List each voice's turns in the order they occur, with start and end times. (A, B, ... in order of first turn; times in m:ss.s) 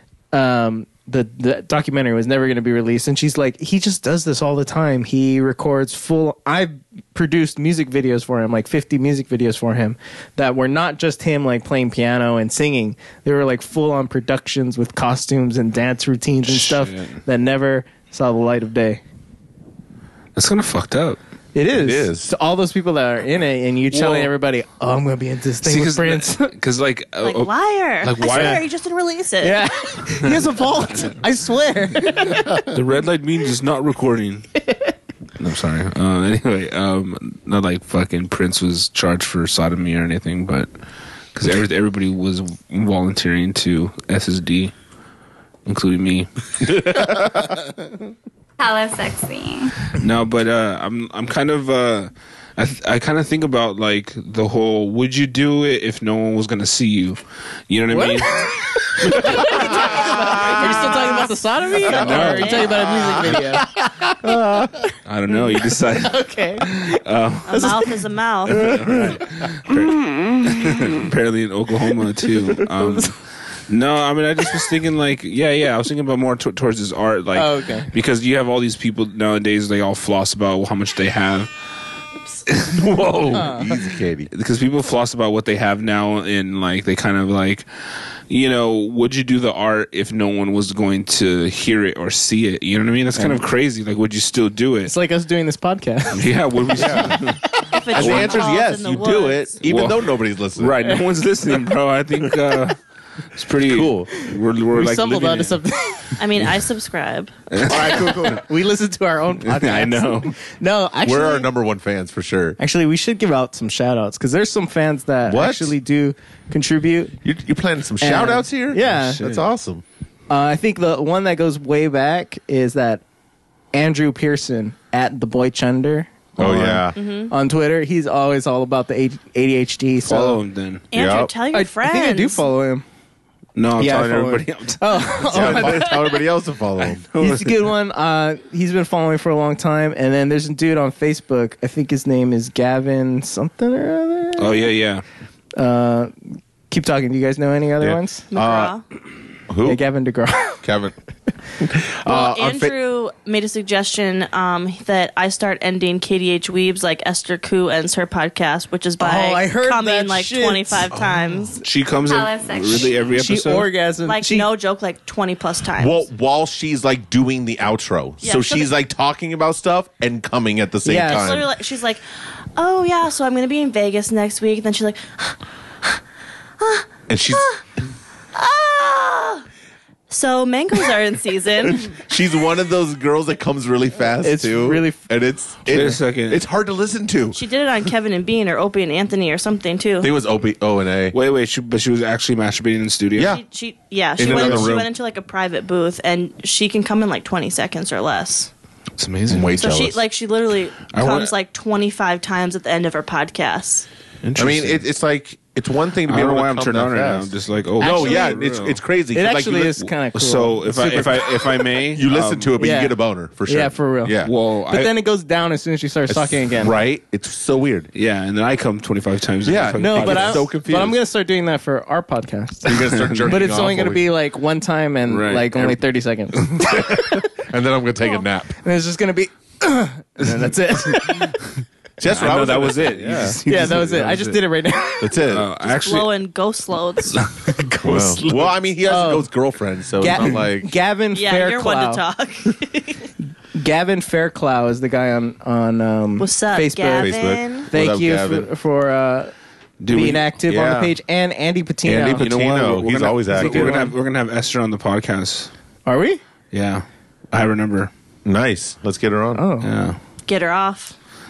0:00.3-0:19.0 A
0:16.4-0:17.2 B
0:20.3-0:21.2 B
0:21.5-0:26.5 A
0:21.8-0:22.3 C
0:23.9-0:24.3 B
0:25.6-0:27.5 B
0:27.2-0:29.6 D
0:28.0-0:28.6 B
0:29.4-0:32.7 A
0:30.2-0:31.2 B
0:32.4-0:34.5 B
0:35.4-0:40.7 B
0:41.3-0:44.7 B
0:45.6-0:47.2 B
0:46.7-0:47.4 C
0:48.6-0:49.9 E
0:50.0-0:59.7 B
0:57.9-1:03.8 A
1:01.8-1:03.2 D
1:02.0-1:03.3 B
1:03.8-1:04.7 C
1:05.0-1:07.9 B
1:06.0-1:06.9 A
1:07.5-1:08.6 D
1:08.4-1:21.5 B
1:08.9-1:09.2 C
1:12.6-1:13.0 A
1:17.3-1:17.9 A
1:22.5-1:23.0 B
1:22.7-1:24.3 C
1:23.3-1:23.7 A
1:24.3-1:27.6 B
1:28.3-1:34.9 B
1:34.8-1:36.3 A
1:36.1-1:38.4 B
1:36.8-1:37.2 C
1:37.7-1:39.5 D
1:37.9-1:40.8 C
1:39.6-1:42.8 B
1:43.3-1:45.6 B
1:43.6-1:44.1 C
1:44.7-1:46.2 A
1:46.2-1:47.3 D
1:47.5-1:48.4 B
1:47.7-1:51.5 A
1:49.4-1:50.3 B
1:51.0-1:52.6 C
1:52.6-1:57.2 A
1:55.2-1:55.7 C
1:57.2-1:59.8 C
1:58.0-1:59.2 A
1:58.8-1:59.5 B
2:00.3-2:03.0 A
2:03.7-2:06.8 A
2:06.4-2:07.0 C
2:06.4-2:06.8 B
2:07.0-2:07.3 D
2:07.3-2:10.4 A
2:10.0-2:10.8 B
2:10.9-2:12.4 D
2:10.9-2:11.3 C
2:11.5-2:12.8 A
2:13.5-2:16.1 B
2:13.8-2:16.2 A
2:15.3-2:17.0 C
2:16.8-2:17.7 B
2:17.2-2:24.7 A
2:24.4-2:25.0 B
2:25.6-2:26.1 A
2:26.7-2:28.2 A
2:27.8-2:28.7 C
2:28.3-2:28.8 D
2:29.5-2:29.8 C
2:29.6-2:30.6 A
2:30.6-2:30.9 C
2:31.6-2:32.7 C
2:32.0-2:41.6 D
2:39.0-2:40.9 A
2:40.9-2:41.5 C
2:41.6-2:43.7 B
2:42.1-2:43.1 E
2:43.1-2:44.5 A
2:44.0-2:46.0 D
2:45.8-2:51.5 C
2:48.2-2:48.7 D
2:50.8-2:51.3 A
2:51.0-2:52.0 D
2:52.6-2:56.0 D
2:56.6-2:57.6 D
2:57.1-2:57.4 C
2:58.3-2:59.4 D
3:00.1-3:01.9 D
3:01.6-3:07.4 C
3:04.2-3:05.0 A
3:05.7-3:06.4 B
3:07.3-3:10.1 D
3:10.0-3:11.2 C
3:11.1-3:13.4 B
3:13.2-3:18.5 D
3:14.2-3:14.9 C
3:14.3-3:14.7 B
3:19.0-3:19.6 B
3:19.3-3:20.0 C
3:19.6-3:23.9 D
3:20.9-3:21.3 B
3:24.2-3:24.8 B
3:24.4-3:29.8 C
3:26.0-3:28.8 B
3:29.1-3:31.4 A
3:30.1-3:32.6 B
3:31.9-3:34.3 C
3:32.6-3:32.9 A
3:33.5-3:34.2 A
3:34.2-3:34.9 B
3:34.7-3:36.8 A
3:36.1-3:37.9 C
3:37.9-3:40.5 B
3:39.4-3:41.0 C
3:39.8-3:47.2 A
3:42.6-3:44.1 C
3:42.7-3:43.6 B
3:45.1-3:45.8 B
3:46.6-3:48.5 C
3:48.6-3:51.4 A
3:50.2-3:51.5 B
3:52.0-3:53.4 C
3:52.1-3:54.4 B
3:53.5-3:55.2 A
3:55.0-3:55.5 C
3:55.2-3:56.1 B
3:55.7-3:57.2 D
3:57.1-3:58.4 B
3:57.8-4:00.7 C
3:57.9-3:58.3 A
3:58.8-3:59.3 A
4:00.0-4:02.0 A
4:01.1-4:03.0 D
4:03.5-4:07.1 A
4:06.2-4:07.7 D
4:06.9-4:08.5 C
4:07.7-4:09.3 A
4:09.8-4:10.3 B
4:09.9-4:12.3 A
4:10.4-4:11.0 C
4:11.8-4:13.8 C
4:12.2-4:15.5 B
4:13.3-4:13.9 A
4:15.8-4:16.2 A
4:16.5-4:17.9 B
4:18.2-4:19.4 C
4:19.3-4:19.7 A
4:19.6-4:20.0 B
4:20.3-4:21.0 D